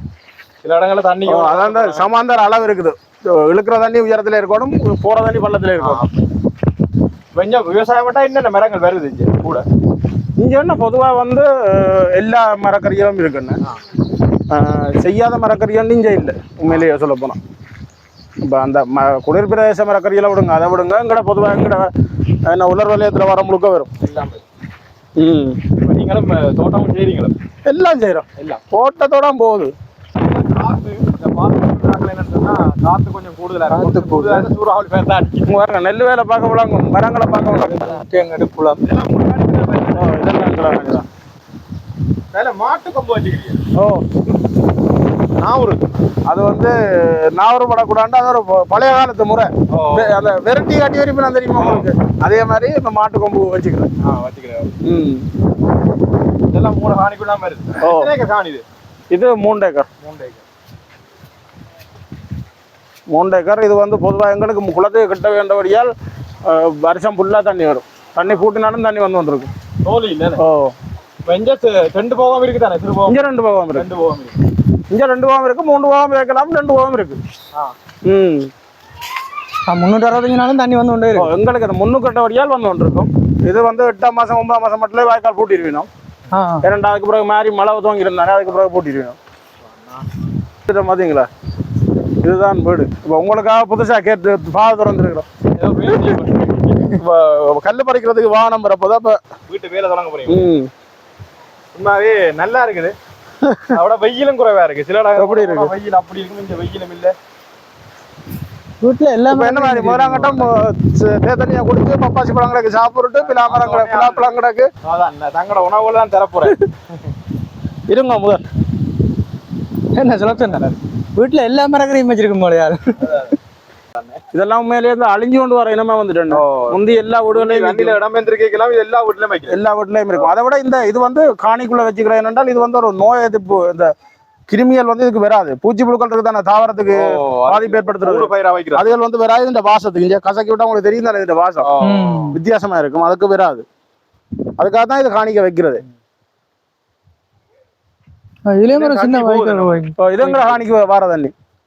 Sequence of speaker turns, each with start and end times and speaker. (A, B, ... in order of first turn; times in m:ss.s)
0:00.6-0:02.1 A
0:01.3-0:06.0 B
0:05.8-0:06.3 A
0:07.4-0:09.6 A
0:10.4-0:13.6 B
0:14.5-0:17.4 B
0:18.4-0:21.9 B
0:22.5-0:23.9 B
0:24.0-0:24.4 A
0:25.2-0:25.6 B
0:25.8-0:27.3 A
0:27.7-0:29.7 B
0:28.4-0:28.6 A
0:30.2-0:35.5 A
0:33.7-0:34.5 C
0:35.5-0:37.9 B
0:37.5-0:37.8 A
0:37.7-0:38.8 C
0:38.8-0:40.2 A
0:40.0-0:41.1 B
0:42.3-0:43.6 A
0:43.8-0:44.1 B
0:45.4-0:45.8 A
0:46.3-0:53.9 B
0:49.7-0:50.2 A
0:51.6-0:51.9 A
0:54.0-0:54.8 A
0:54.8-0:55.3 B
0:56.5-0:58.6 A
0:57.8-0:58.1 B
0:59.1-0:59.9 B
1:00.0-1:00.4 A
1:03.1-1:05.9 B
1:06.4-1:09.5 B
1:09.8-1:10.4 A
1:10.4-1:10.8 B
1:11.3-1:13.2 A
1:13.1-1:13.9 B
1:13.7-1:14.4 A
1:14.9-1:17.2 B
1:18.0-1:18.5 B
1:19.7-1:21.3 C
1:21.2-1:25.9 B
1:26.3-1:26.6 C
1:26.6-1:29.2 B
1:29.6-1:30.0 A
1:30.6-1:31.3 B
1:32.2-1:35.3 B
1:35.6-1:37.0 A
1:36.9-1:39.2 B
1:39.5-1:40.5 A
1:40.3-1:40.7 B
1:41.8-1:43.0 A
1:43.4-1:43.8 B
1:43.7-1:47.2 A
1:45.2-1:45.7 B
1:48.8-1:50.4 C
1:49.3-1:54.7 B
1:53.2-1:56.6 A
1:57.9-1:58.4 B
2:00.0-2:03.2 C
2:00.4-2:00.8 A
2:03.0-2:03.3 A
2:04.3-2:08.0 B
2:06.3-2:09.6 A
2:09.5-2:13.9 B
2:14.5-2:21.7 B
2:16.9-2:18.8 A
2:21.6-2:22.4 A
2:21.8-2:22.4 C
2:22.3-2:23.7 B
2:24.6-2:25.8 B
2:28.5-2:30.0 C
2:28.7-2:30.6 A
2:30.0-2:31.3 B